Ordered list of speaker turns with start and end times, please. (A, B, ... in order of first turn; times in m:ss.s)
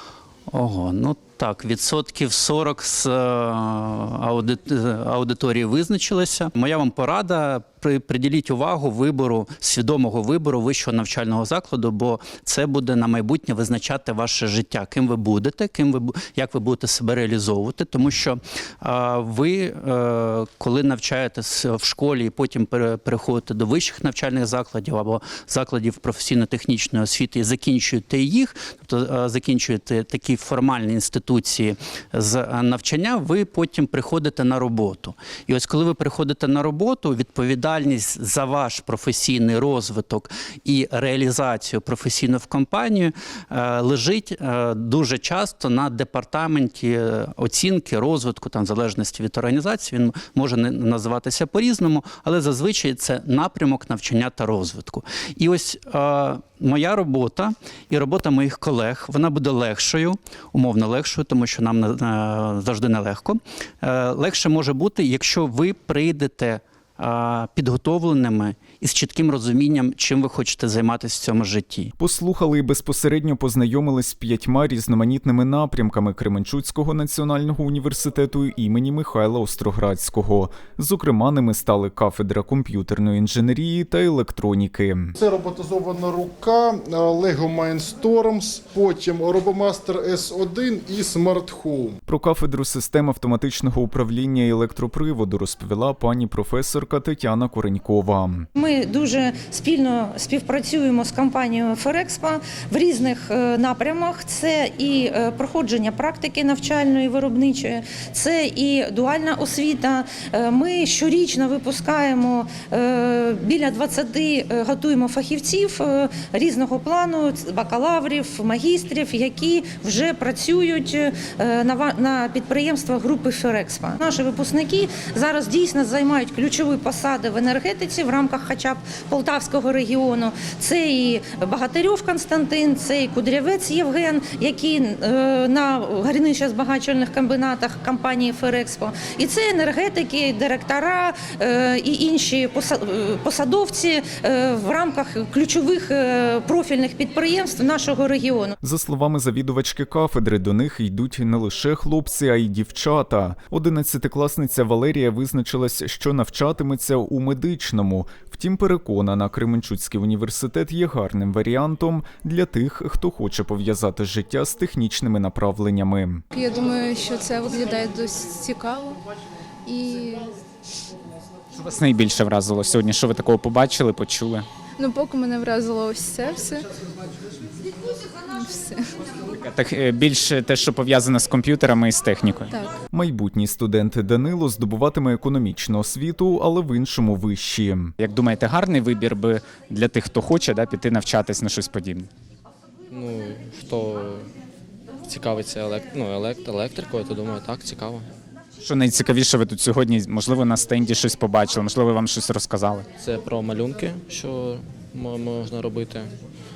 0:00.5-1:11.9 A
1:12.0-1:25.1 B
1:25.2-1:32.0 C
1:32.1-1:38.5 B
1:38.6-2:28.6 D
2:28.6-2:46.2 B
2:46.3-2:49.0 E
2:49.6-2:50.3 E
2:51.6-2:54.4 F
2:54.8-2:56.7 E
2:58.2-2:58.9 E
2:59.4-3:02.4 F
3:02.9-3:07.9 B
3:08.0-3:12.1 F
3:12.9-3:14.2 G
3:15.1-3:18.0 G
3:18.6-3:22.8 F
3:23.0-3:26.0 G